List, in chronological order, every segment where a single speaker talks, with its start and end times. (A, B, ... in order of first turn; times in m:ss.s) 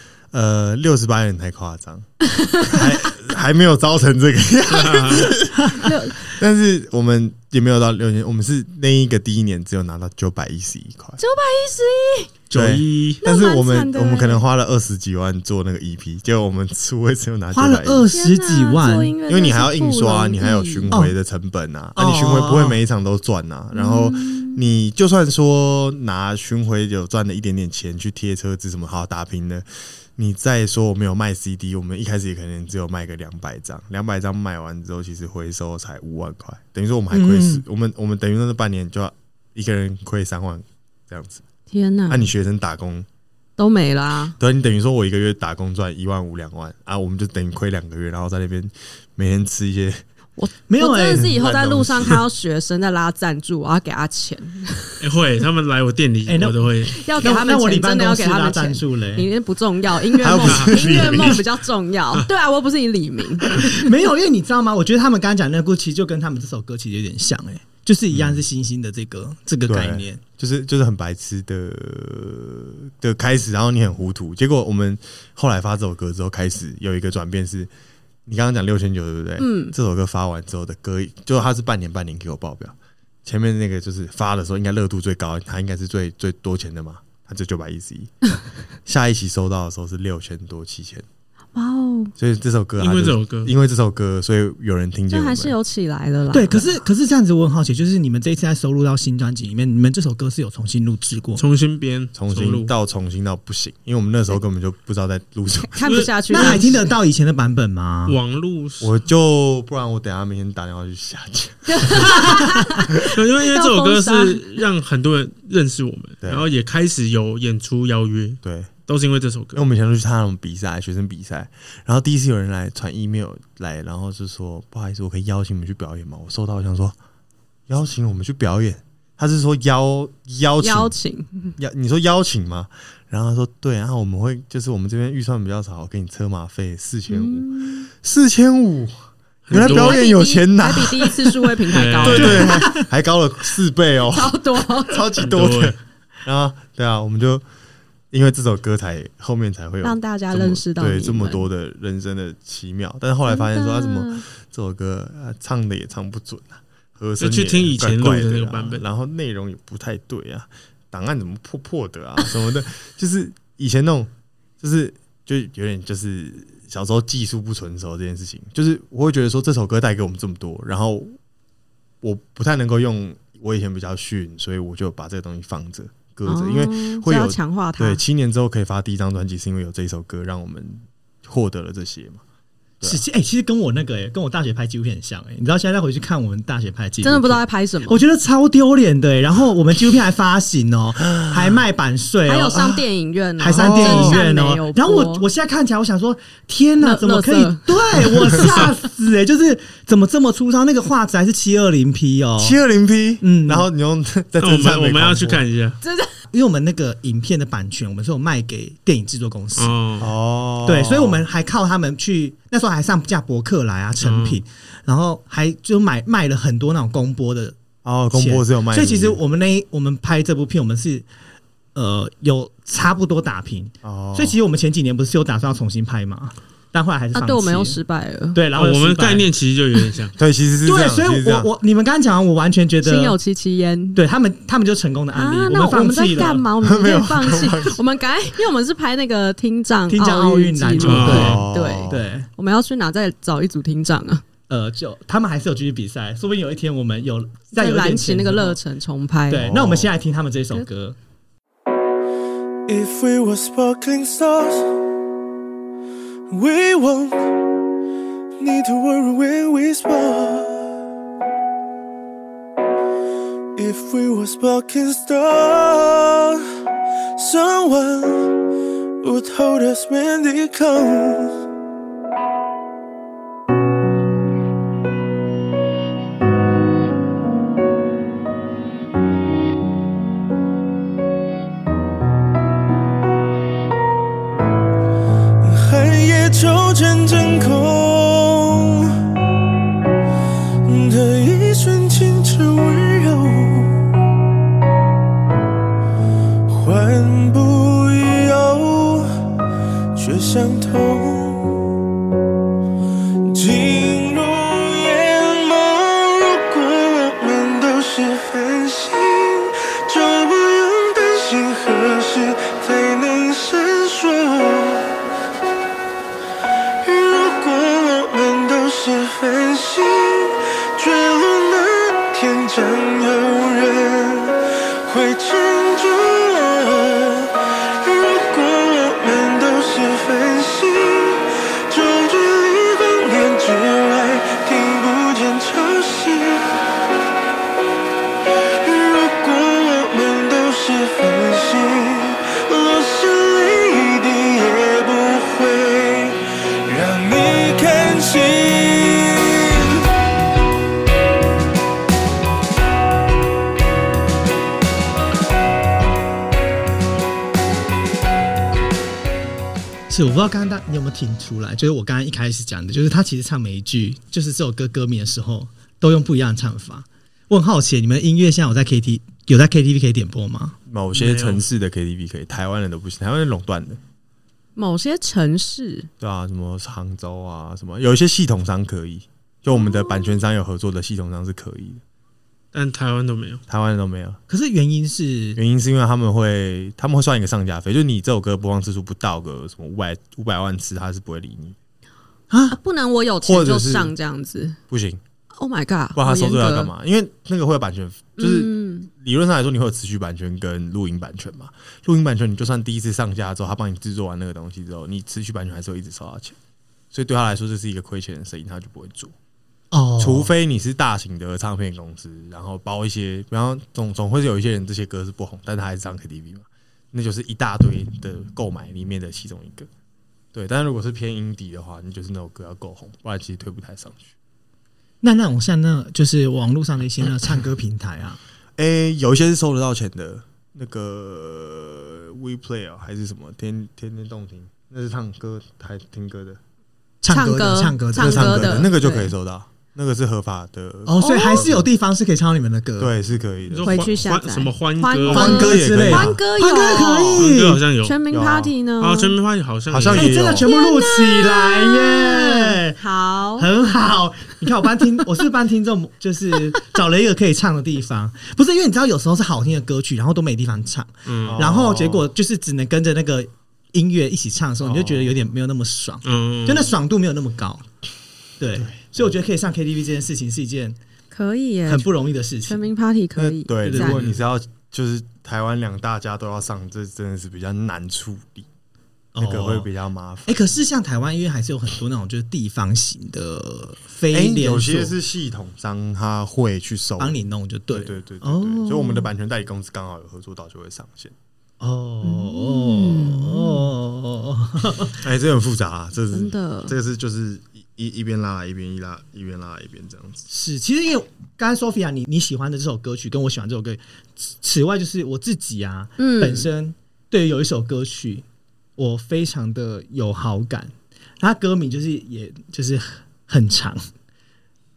0:00.3-0:11.2 A
0:02.4-0:02.8 B
0:04.7-0:05.3 C
0:05.8-0:06.3 B
0:11.2-0:12.3 B
0:12.5-0:13.2 C
0:12.5-0:18.1 A
0:13.2-0:14.4 B
0:17.5-0:19.1 D
0:18.1-0:20.9 B
0:19.3-0:41.4 A
0:22.0-0:22.8 D
0:23.7-0:24.6 B
0:37.1-0:37.6 D
0:41.7-0:42.3 B
0:42.1-0:43.0 A
0:43.6-0:44.4 B
0:44.4-0:50.0 A
0:50.4-0:54.9 B
0:50.7-0:51.3 D
0:51.2-0:52.2 A
0:55.0-0:57.0 C
0:56.3-0:59.3 D
0:57.0-1:03.7 B
1:00.2-1:01.4 A
1:00.4-1:00.9 C
1:03.5-1:10.2 D
1:08.1-1:08.4 A
1:09.7-1:17.7 A
1:18.2-1:28.1 A
1:19.4-1:19.7 B
1:28.8-1:31.0 A
1:31.5-1:32.1 B
1:32.2-1:35.5 A
1:32.8-1:33.5 C
1:35.1-1:36.7 B
1:36.3-1:41.4 D
1:41.4-1:42.7 C
1:42.1-1:46.0 A
1:45.6-1:46.7 B
1:45.8-1:46.7 C
1:46.3-1:48.2 D
1:48.0-1:48.9 C
1:48.8-1:52.4 A
1:51.7-1:54.6 B
1:53.1-1:59.6 C
1:56.2-1:56.5 A
1:58.4-1:58.7 A
1:59.5-2:07.0 A
2:07.7-2:10.9 A
2:10.6-2:11.6 B
2:11.6-2:27.4 A
2:17.1-2:17.9 B
2:19.4-2:20.0 C
2:19.5-2:22.6 B
2:21.7-2:22.6 C
2:22.5-2:22.8 D
2:24.1-2:25.1 B
2:25.2-2:25.8 C
2:28.1-2:51.2 A
2:29.8-2:31.5 B
2:33.2-2:34.2 B
2:37.2-2:38.8 C
2:52.0-3:02.2 A
2:56.2-2:58.0 B
3:02.8-3:12.8 D
3:07.0-3:08.0 B
3:11.2-3:11.6 A
3:12.2-3:15.2 B
3:13.4-3:22.6 D
3:13.5-3:14.2 A
3:16.8-3:18.6 B
3:22.4-3:25.4 A
3:23.2-3:23.7 D
3:24.4-3:25.8 C
3:25.8-3:26.1 B
3:26.3-3:29.8 D
3:29.5-3:30.1 C
3:30.0-3:31.2 A
3:30.6-3:37.6 D
3:34.0-3:34.4 C
3:37.8-3:39.2 A
3:38.1-3:41.0 D
3:41.7-3:47.8 D
3:43.8-3:44.4 A
3:47.1-3:48.4 B
3:48.3-3:49.3 D
3:48.5-3:50.1 C
3:50.2-3:51.5 A
3:50.6-3:53.2 D
3:52.8-3:54.0 B
3:54.0-3:56.4 D
3:55.1-4:04.2 B
3:56.6-3:57.8 A
3:59.9-4:02.3 D
4:00.8-4:01.4 C
4:01.0-4:02.1 A
4:04.5-4:08.6 D
4:07.5-4:09.5 B
4:09.3-4:11.0 D
4:09.3-4:09.9 A
4:12.7-4:14.8 E
4:16.3-4:17.4 E
4:18.4-4:20.7 E
4:23.6-4:26.4 E
4:27.2-4:28.4 E
4:29.0-4:31.4 E
4:45.4-4:49.0 E
4:50.6-4:53.8 E
4:56.5-4:59.1 E
4:59.9-5:01.6 E
5:03.3-5:15.0 E
5:16.8-5:36.5 E
5:38.6-5:49.8 E
5:59.9-6:10.6 D
6:10.7-6:13.8 A
6:10.9-6:11.4 C
6:14.6-6:15.9 B
6:16.0-6:21.8 A
6:19.5-6:20.1 B
6:22.5-6:23.4 C
6:23.5-6:24.2 A
6:24.3-6:25.4 D
6:25.3-6:31.6 A
6:32.3-6:32.6 D
6:32.5-6:34.6 B
6:33.2-6:33.9 A
6:34.7-6:35.0 A
6:35.4-6:36.7 B
6:35.9-6:46.4 A
6:38.2-6:38.9 B
6:46.9-6:49.1 A
6:49.7-6:50.3 D
6:50.0-6:59.7 A
7:00.3-7:04.1 A
7:05.0-7:08.2 D
7:08.6-7:16.4 A
7:17.0-7:18.7 D
7:17.1-7:19.1 B
7:18.0-7:21.7 A
7:20.8-7:22.9 D
7:21.0-7:21.5 B
7:22.8-7:24.0 A
7:23.5-7:25.5 C
7:23.6-7:27.2 B
7:25.1-7:26.2 A
7:25.1-7:27.6 D
7:27.1-7:28.0 C
7:27.8-7:29.1 B
7:28.1-7:28.5 A
7:28.8-7:30.2 C
7:29.7-7:30.5 A
7:29.9-7:32.8 D
7:30.4-7:33.5 B
7:33.4-7:47.6 D
7:41.0-7:41.4 C
7:41.2-7:42.1 A
7:44.6-7:45.3 A
7:46.0-7:46.7 C
7:48.4-7:50.8 D
7:48.5-7:49.2 A
7:51.1-7:51.9 B
7:51.7-7:52.6 D
7:52.4-7:54.0 B
7:53.2-7:58.5 A
7:53.6-7:54.1 D
7:59.1-7:59.7 D
7:59.2-8:00.3 A
8:00.2-8:04.9 D
8:04.1-8:07.2 A
8:07.0-8:09.0 D
8:07.7-8:11.1 A
8:11.6-8:15.0 D
8:12.0-8:13.6 B
8:15.0-8:20.3 A
8:16.1-8:16.8 B
8:20.3-8:28.2 D
8:26.0-8:26.5 B
8:28.8-8:33.8 D